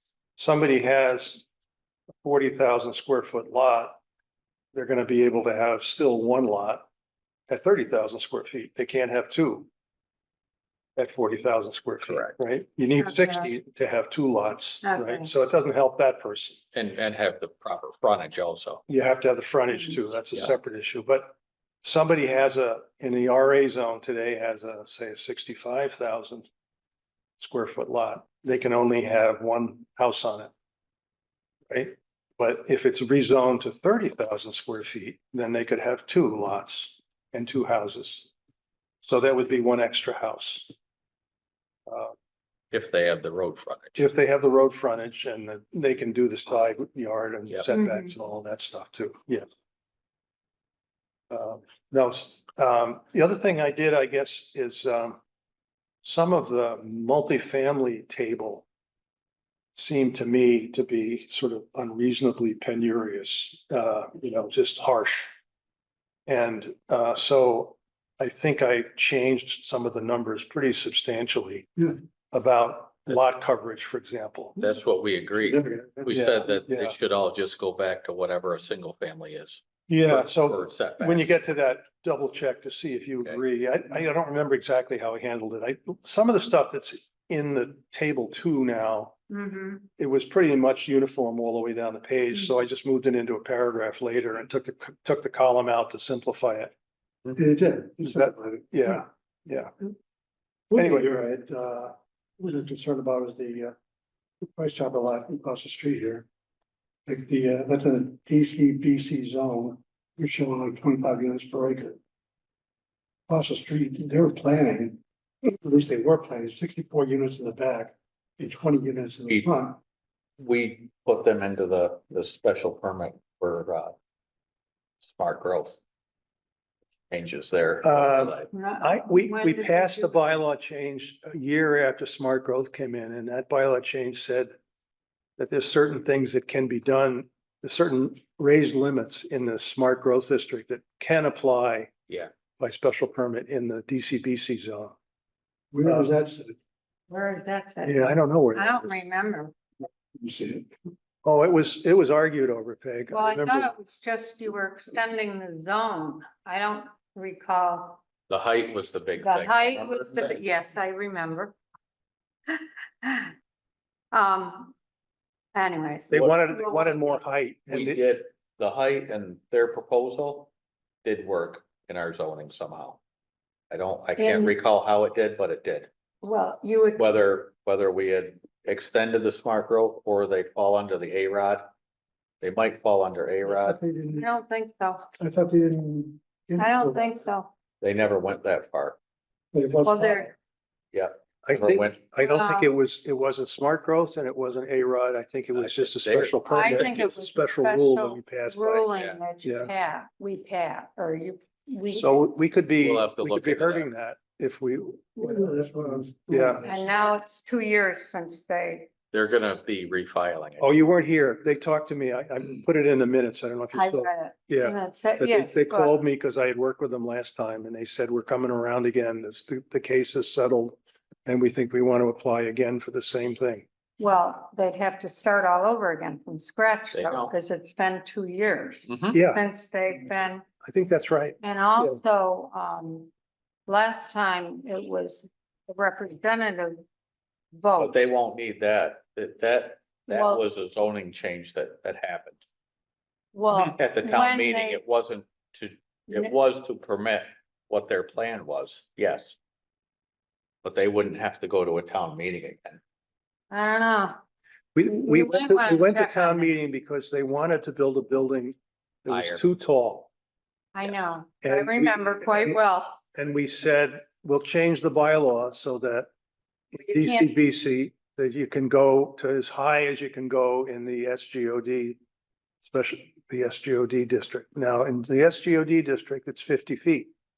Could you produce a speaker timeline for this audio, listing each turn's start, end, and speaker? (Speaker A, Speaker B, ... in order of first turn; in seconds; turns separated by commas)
Speaker A: 0.4-1.4, Speaker A: 2.2-4.0, Speaker A: 4.7-6.8, Speaker A: 7.5-9.7, Speaker A: 10.9-16.6, Speaker B: 12.1-12.3, Speaker C: 13.0-13.5, Speaker C: 14.8-15.3, Speaker B: 16.7-18.8, Speaker A: 18.9-26.5, Speaker A: 27.4-30.5, Speaker A: 31.7-38.3, Speaker A: 39.0-40.7, Speaker A: 41.9-42.1, Speaker B: 42.7-44.0, Speaker A: 44.0-49.4, Speaker C: 47.7-48.1, Speaker A: 51.3-55.2, Speaker A: 56.0-58.6, Speaker A: 59.8-65.3, Speaker A: 66.3-71.7, Speaker A: 72.3-74.6, Speaker B: 74.6-81.3, Speaker D: 75.4-76.3, Speaker A: 76.1-77.0, Speaker A: 79.9-89.2, Speaker C: 89.3-89.8, Speaker A: 90.0-96.7, Speaker D: 97.3-99.0, Speaker A: 98.0-99.7, Speaker D: 100.7-103.7, Speaker A: 100.7-101.1, Speaker D: 104.4-106.2, Speaker D: 107.0-112.0, Speaker D: 113.3-119.8, Speaker B: 120.4-124.0, Speaker B: 125.0-125.8, Speaker B: 127.1-128.5, Speaker A: 127.8-134.5, Speaker C: 128.5-130.4, Speaker A: 135.4-141.9, Speaker A: 142.6-144.9, Speaker D: 145.7-146.6, Speaker A: 145.8-146.1, Speaker C: 147.1-149.5, Speaker A: 147.8-149.0, Speaker D: 150.1-150.7, Speaker A: 151.2-153.7, Speaker C: 153.1-158.0, Speaker B: 158.3-160.4, Speaker C: 159.2-161.6, Speaker C: 162.5-163.3, Speaker C: 164.1-164.7, Speaker C: 165.5-167.2, Speaker A: 166.1-168.0, Speaker B: 167.7-170.5, Speaker B: 171.0-173.0, Speaker B: 173.7-175.9, Speaker C: 174.2-174.5, Speaker C: 176.2-177.1, Speaker B: 176.9-181.7, Speaker B: 182.4-183.8, Speaker D: 183.5-184.3, Speaker C: 184.2-185.1, Speaker D: 185.2-187.2, Speaker C: 186.6-187.5, Speaker B: 187.8-189.0, Speaker D: 189.5-190.3, Speaker C: 189.8-190.3, Speaker B: 190.9-192.0, Speaker A: 191.4-198.9, Speaker C: 192.2-192.7, Speaker B: 195.5-197.0, Speaker C: 196.5-202.2, Speaker B: 198.9-199.2, Speaker A: 199.4-199.7, Speaker A: 201.9-205.5, Speaker B: 202.8-203.9, Speaker D: 205.2-206.8, Speaker A: 206.3-206.7, Speaker C: 206.6-208.9, Speaker B: 209.1-210.7, Speaker A: 210.6-223.7, Speaker C: 213.7-216.0, Speaker C: 224.0-230.4, Speaker B: 226.9-227.3, Speaker B: 228.9-229.2, Speaker A: 229.1-229.4, Speaker A: 230.6-232.0, Speaker C: 231.4-233.1, Speaker C: 233.7-236.8, Speaker C: 237.5-237.9, Speaker B: 237.8-242.4, Speaker C: 240.1-240.4, Speaker C: 243.3-244.8, Speaker B: 243.5-249.4, Speaker B: 250.6-252.8, Speaker C: 253.5-254.2, Speaker A: 254.7-260.1, Speaker C: 254.8-256.5, Speaker B: 259.1-259.4, Speaker C: 260.7-263.0, Speaker A: 261.4-262.6, Speaker A: 263.1-266.1, Speaker A: 266.7-272.0, Speaker C: 267.0-267.3, Speaker A: 272.6-277.1